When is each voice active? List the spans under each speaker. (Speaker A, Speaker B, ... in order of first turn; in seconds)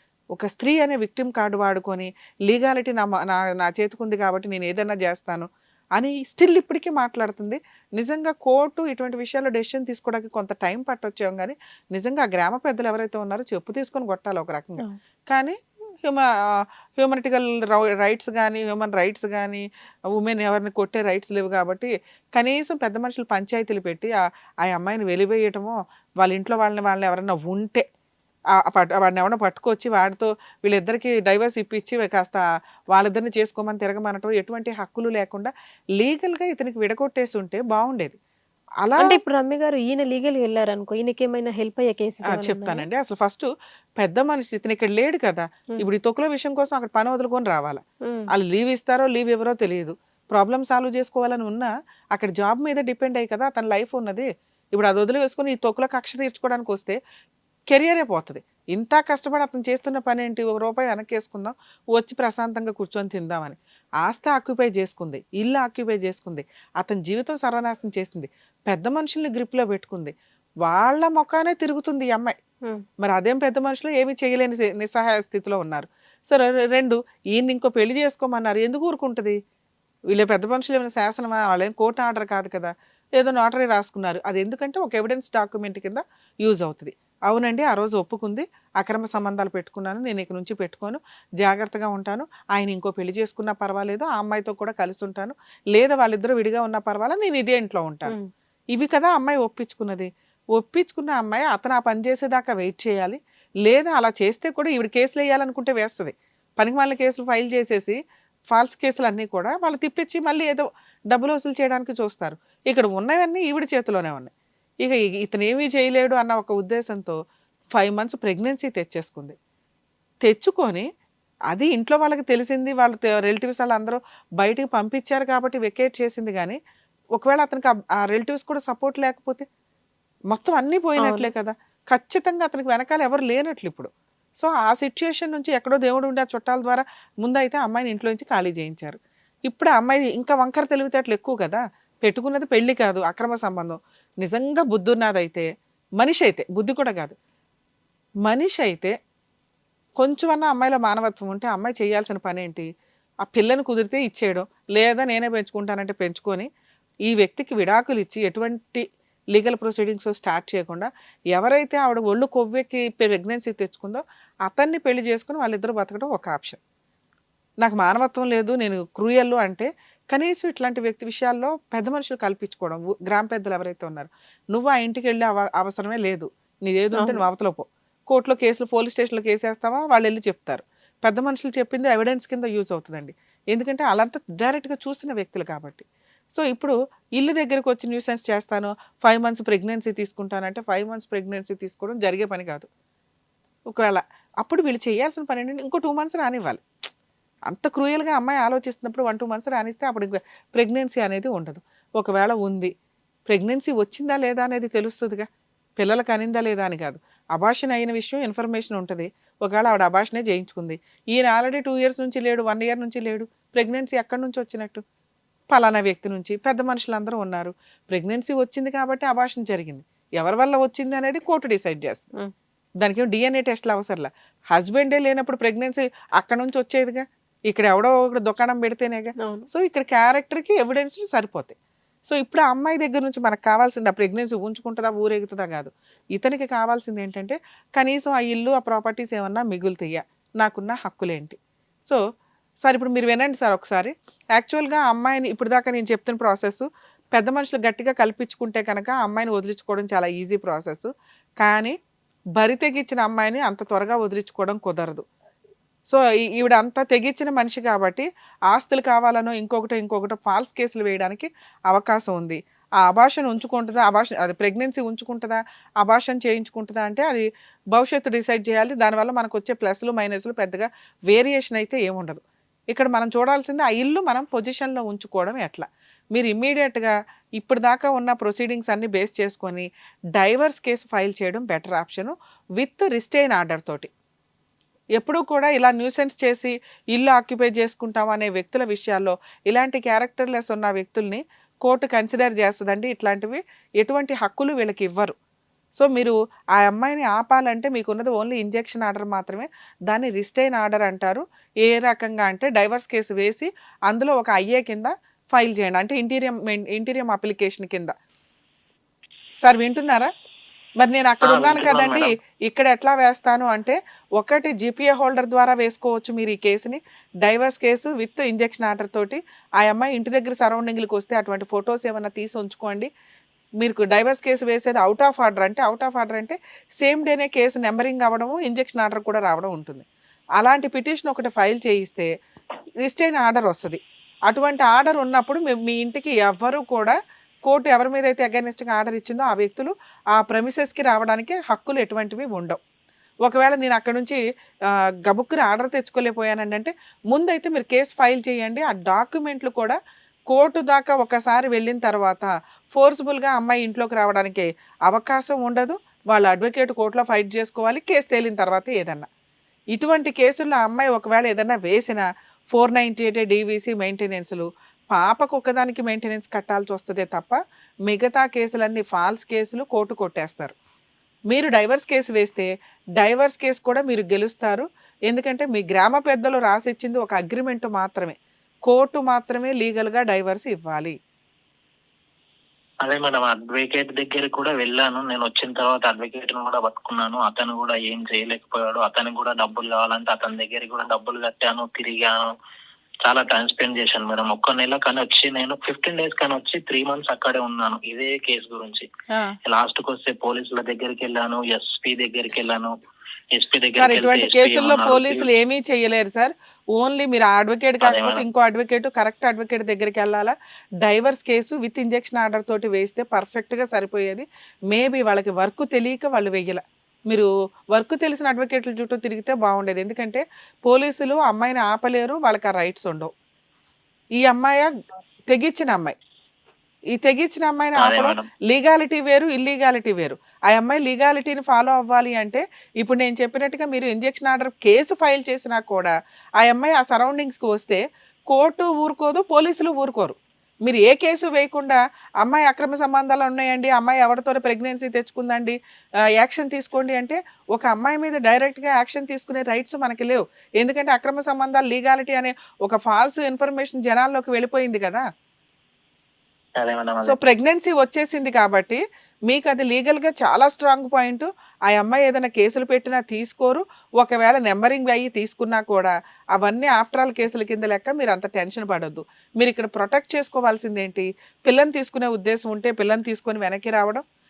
Speaker A: 0.3-19.6, 20.1-27.8, 28.5-32.4, 32.9-38.2, 38.8-39.2, 42.3-43.5, 44.0-57.0, 57.7-72.3, 73.0-79.4, 80.1-98.1, 98.7-108.0, 108.5-117.2, 117.7-119.3, 120.2-120.9, 121.5-126.6, 127.2-129.4, 130.3-133.9, 134.4-145.5, 146.0-147.1, 148.2-148.9, 150.0-152.7, 153.2-156.5, 157.1-166.6, 167.6-192.7, 193.7-196.6, 197.5-202.7, 203.3-205.3, 205.8-214.8, 215.5-222.1, 222.8-231.6, 232.1-242.0, 242.6-251.7, 252.4-255.0, 255.9-283.9, 285.0-295.1, 295.7-307.9, 309.4-310.1, 310.8-322.9, 323.6-329.9, 330.4-332.1, 332.8-342.6, 343.2-344.2, 345.1-349.8, 350.3-359.1, 359.7-370.5, 371.3-380.9, 403.7-423.1, 424.2-424.7, 425.3-425.9, 426.9-445.6, 446.2-455.0, 457.0-474.0
Speaker B: 39.0-42.9, 48.0-48.3, 131.0-131.3, 177.0-177.2, 229.2-229.5
Speaker C: 311.2-312.1, 382.8-392.3, 393.1-398.9, 399.5-402.7, 403.3-405.3, 407.8-408.2, 427.8-428.3, 456.6-457.2